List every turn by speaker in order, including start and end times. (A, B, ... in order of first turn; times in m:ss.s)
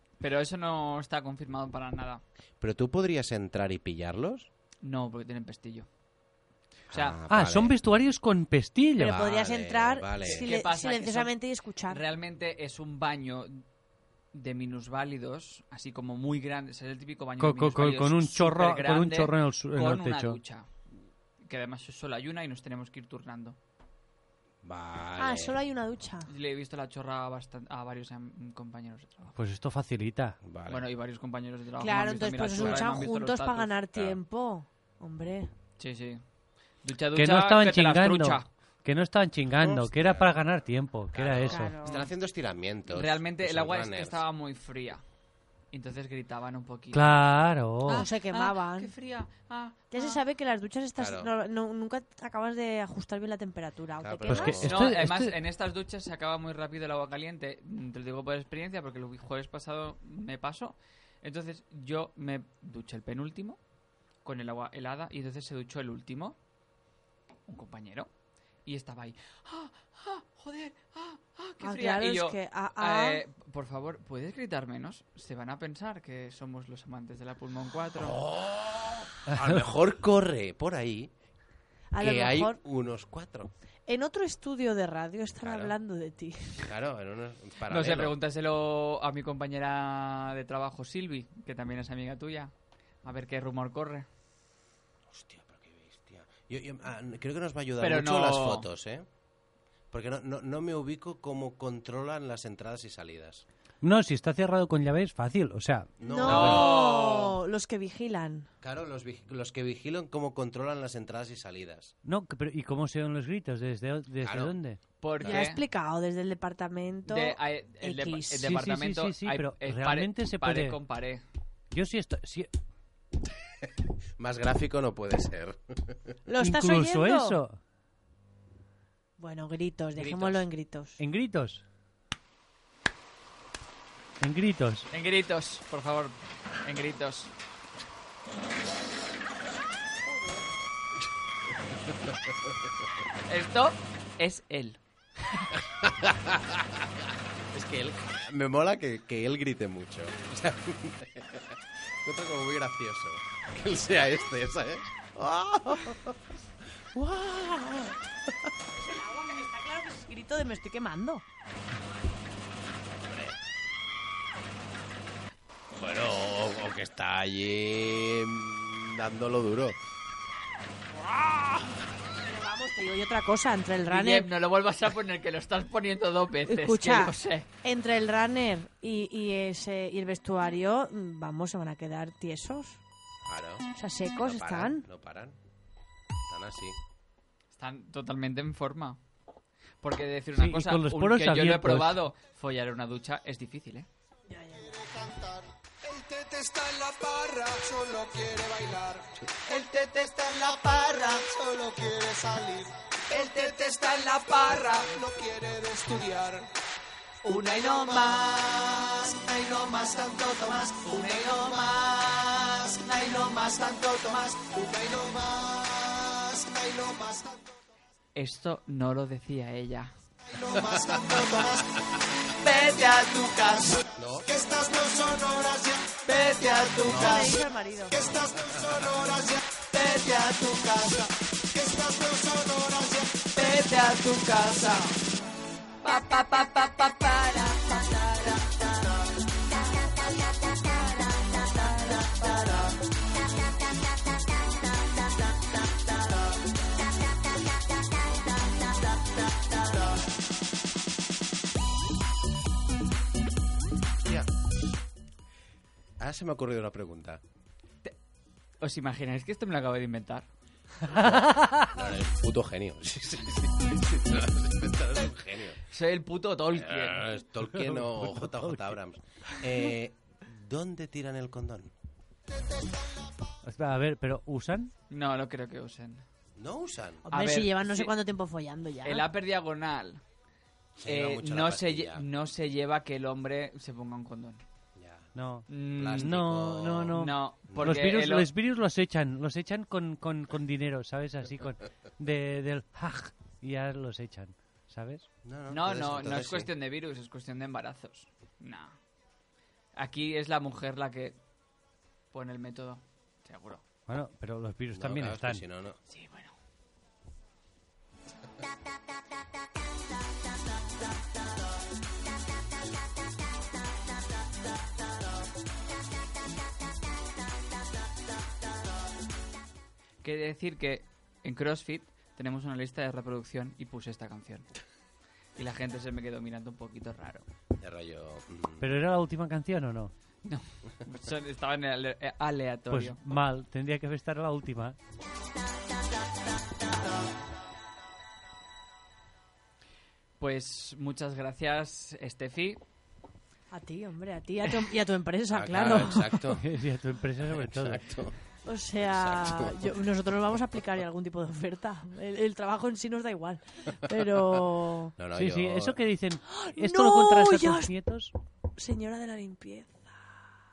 0:00.2-0:02.2 A
0:02.6-0:04.5 B
0:04.8-0:05.9 A
0:06.9-0:07.2 A
0:06.9-0:07.8 B
0:07.3-0:09.2 C
0:09.0-0:12.0 D
0:09.0-0:10.5 B
0:10.2-0:11.3 A
0:11.9-0:13.6 A
0:14.3-0:20.7 A
0:17.4-0:20.4 C
0:21.4-0:23.6 A
0:24.6-0:25.6 B
0:25.2-0:26.3 D
0:26.3-0:29.4 A
0:29.4-0:30.4 C
0:30.4-0:30.8 B
0:30.7-0:33.7 A
0:31.8-0:35.5 D
0:32.5-0:33.0 B
0:33.9-0:34.2 B
0:35.8-0:36.2 A
0:36.8-0:38.5 A
0:37.1-0:41.8 C
0:39.6-0:40.4 B
0:41.1-0:44.2 B
0:41.5-0:42.1 D
0:42.9-0:45.0 A
0:45.7-0:47.1 A
0:46.9-0:48.1 C
0:47.9-0:50.2 A
0:47.9-0:48.9 D
0:49.9-0:54.7 D
0:51.0-0:51.3 B
0:54.0-0:54.9 B
0:54.3-0:55.4 C
0:54.6-1:03.6 A
1:04.2-1:06.4 A
1:07.5-1:08.1 A
1:08.6-1:18.2 A
1:11.6-1:13.2 D
1:18.0-1:21.1 B
1:19.3-1:19.6 C
1:21.9-1:22.6 D
1:22.0-1:23.5 B
1:23.9-1:26.6 D
1:25.4-1:25.8 B
1:26.6-1:28.2 B
1:27.7-1:32.5 A
1:33.0-1:34.1 A
1:35.1-1:39.1 B
1:37.8-1:38.7 A
1:39.9-1:43.4 B
1:43.8-1:45.9 C
1:46.0-1:46.8 B
1:46.1-1:48.5 D
1:46.2-1:47.4 A
1:48.6-1:51.9 B
1:52.0-1:54.8 C
1:54.2-1:54.6 B
1:55.0-1:55.6 A
1:55.2-1:58.4 D
1:57.1-2:01.2 A
1:58.4-2:00.8 C
2:01.7-2:02.5 C
2:04.2-2:06.2 B
2:06.3-2:07.4 D
2:06.4-2:07.6 C
2:09.2-2:11.0 D
2:10.0-2:10.5 A
2:11.0-2:11.6 C
2:14.2-2:14.9 C
2:14.9-2:17.3 A
2:23.3-2:25.5 A
2:25.8-2:26.9 B
2:27.5-2:36.2 B
2:36.9-2:38.3 B
2:38.8-2:41.2 D
2:43.0-2:43.4 B
2:45.8-2:49.8 B
2:52.2-2:54.3 D
2:53.9-2:57.5 A
2:56.5-3:02.8 D
3:03.3-3:03.7 B
3:03.8-3:04.8 D
3:04.2-3:05.4 B
3:06.3-3:06.8 B
3:07.5-3:09.0 A
3:09.8-3:13.9 A
3:10.4-3:12.0 C
3:14.3-3:14.9 D
3:14.7-3:26.5 E
3:24.2-3:24.9 A
3:27.2-3:37.5 E
3:27.5-3:28.1 A
3:30.9-3:31.6 A
3:38.2-3:40.0 A
3:40.3-3:55.0 E
3:40.5-3:41.8 B
3:44.0-3:44.3 B
3:46.8-3:47.3 B
3:46.9-3:48.0 D
3:48.4-3:48.8 B
3:55.8-3:58.4 A
4:01.9-4:02.7 E
4:16.0-4:17.2 B
4:18.6-4:20.3 A
4:20.9-4:21.7 C
4:20.9-4:25.6 B
4:25.7-4:27.1 A
4:26.5-4:31.7 B
4:27.5-4:28.8 C
4:33.4-4:34.7 C
4:34.9-4:36.0 A
4:36.4-4:37.1 B
4:37.1-4:39.0 D
4:37.1-4:37.9 A
4:38.8-4:40.0 A
4:40.8-4:42.0 B
4:40.8-4:44.4 A
4:44.8-4:45.1 B
4:45.2-4:55.1 C
4:45.5-4:46.1 A
4:45.7-4:47.8 B
4:47.0-4:48.3 A
4:55.2-4:56.5 B
4:55.5-4:58.8 A
4:59.8-5:01.2 A
5:02.1-5:03.6 A
5:03.9-5:05.4 C
5:04.7-5:05.8 B
5:05.9-5:06.3 A
5:20.0-5:24.5 A
5:25.4-5:27.3 A
5:27.6-5:28.7 B
5:28.6-5:29.9 C
5:30.2-5:33.0 A
5:32.7-5:34.8 C
5:40.2-5:42.6 A
5:43.5-5:46.2 D
5:45.3-5:46.4 B
5:46.2-5:47.9 C
5:47.2-5:48.2 B
5:48.4-5:55.0 D
5:48.9-5:49.7 B
5:55.0-5:55.8 B
5:55.1-5:58.1 C
5:56.3-5:57.7 D
5:58.6-6:00.0 D